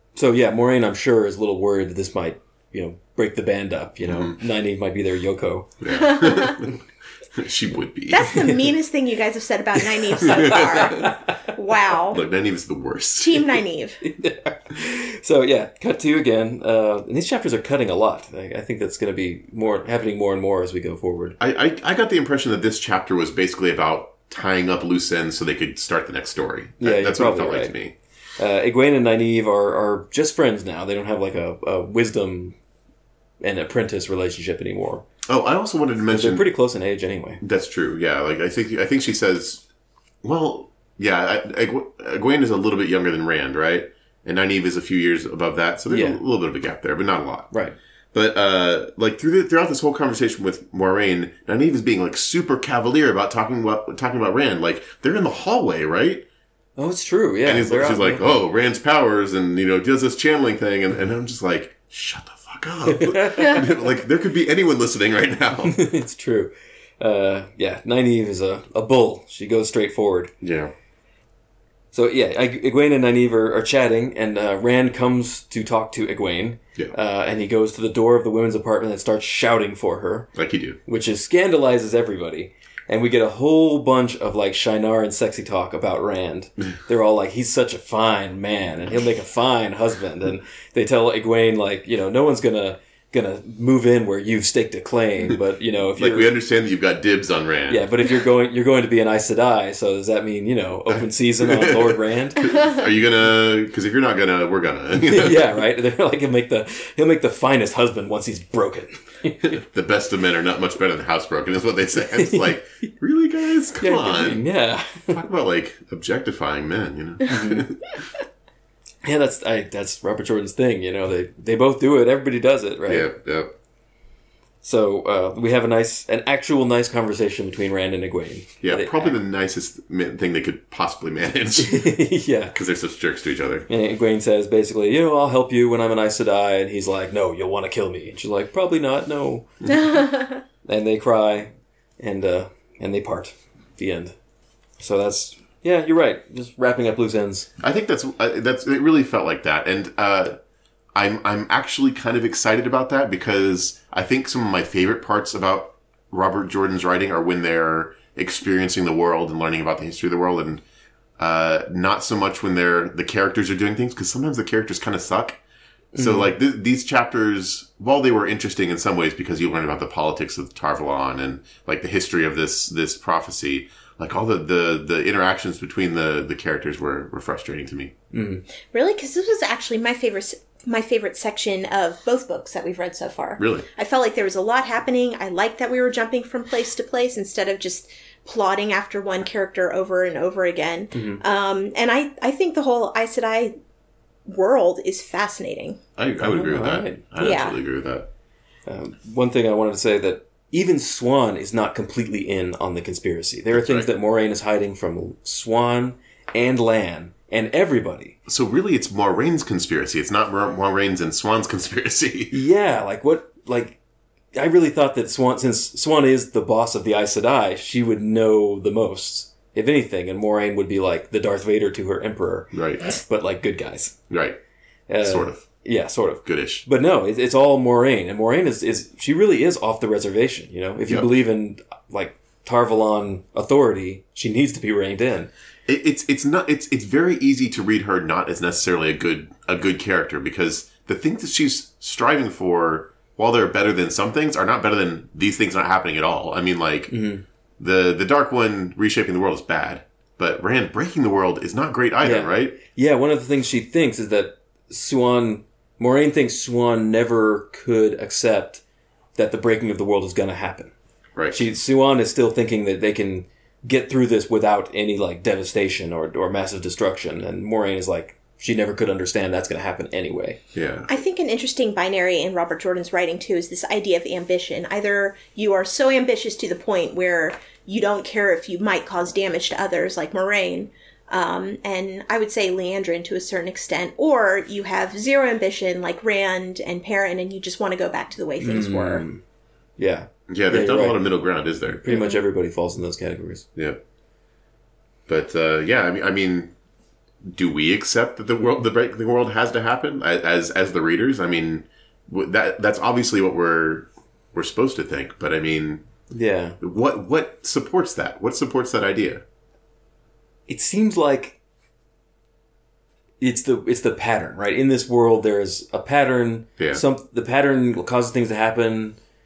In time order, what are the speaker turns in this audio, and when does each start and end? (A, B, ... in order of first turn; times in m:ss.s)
0:00.2-0:05.8 A
0:04.0-0:04.3 B
0:05.8-0:06.8 B
0:05.9-0:06.6 C
0:07.3-0:08.6 B
0:08.1-0:12.2 C
0:10.0-0:11.5 A
0:10.2-0:11.1 B
0:12.1-0:13.6 B
0:13.2-0:14.0 C
0:14.0-0:21.4 A
0:21.4-0:27.9 B
0:26.8-0:27.7 A
0:28.4-0:32.6 A
0:33.4-0:35.0 A
0:35.3-0:36.5 B
0:36.1-0:37.4 A
0:37.4-0:39.6 B
0:40.2-0:47.5 B
0:45.9-0:46.2 A
0:48.1-0:56.2 B
0:56.8-0:58.3 A
0:57.4-1:05.8 B
1:02.8-1:03.7 A
1:05.6-1:10.3 A
1:10.4-1:10.7 B
1:11.9-1:20.3 A
1:20.3-1:20.8 B
1:20.8-1:36.3 A
1:35.9-1:37.9 B
1:37.7-1:42.5 A
1:40.9-1:45.6 B
1:45.1-1:49.6 A
1:49.5-1:54.4 B
1:52.1-1:52.6 A
1:53.8-1:55.2 A
1:55.1-1:58.1 B
1:57.3-1:57.7 A
1:59.0-2:03.1 A
2:02.9-2:03.5 B
2:04.6-2:09.2 A
2:08.6-2:12.0 B
2:11.6-2:12.5 A
2:12.5-2:13.7 B
2:13.7-2:20.1 A
2:20.6-2:24.1 A
2:24.8-2:27.5 A
2:27.6-2:30.4 B
2:30.9-2:40.6 B
2:41.2-2:45.4 B
2:45.9-2:46.3 A
2:46.0-2:57.9 B
2:58.1-2:58.4 A
2:58.7-3:13.5 C
3:03.4-3:03.6 B
3:10.9-3:11.2 A
3:14.3-3:15.8 C
3:16.0-3:18.1 B
3:16.2-3:17.1 A
3:17.2-3:17.6 C
3:18.7-3:28.2 A
3:23.5-3:23.9 B
3:28.3-3:32.4 B
3:32.3-3:33.8 A
3:34.4-3:44.0 A
3:42.5-3:42.8 B
3:44.1-3:44.4 B
3:44.9-3:55.3 A
3:45.0-3:45.4 B
3:46.2-3:46.7 B
3:55.7-4:06.9 B
4:06.9-4:07.2 A
4:07.6-4:12.6 B
4:12.0-4:18.6 A
4:19.2-4:20.7 A
4:21.2-4:21.5 B
4:21.3-4:30.4 A
4:30.5-4:30.9 B
4:30.9-4:49.0 C
4:48.4-4:49.2 A
4:49.8-4:51.0 A
4:50.3-4:51.8 B
4:51.7-4:53.4 A
4:51.9-4:52.2 C
4:55.1-4:56.5 B
4:57.2-5:05.8 B
5:06.1-5:06.6 A
5:06.6-5:09.2 B
5:10.5-5:11.4 A
5:13.2-5:19.0 A
5:16.6-5:16.8 B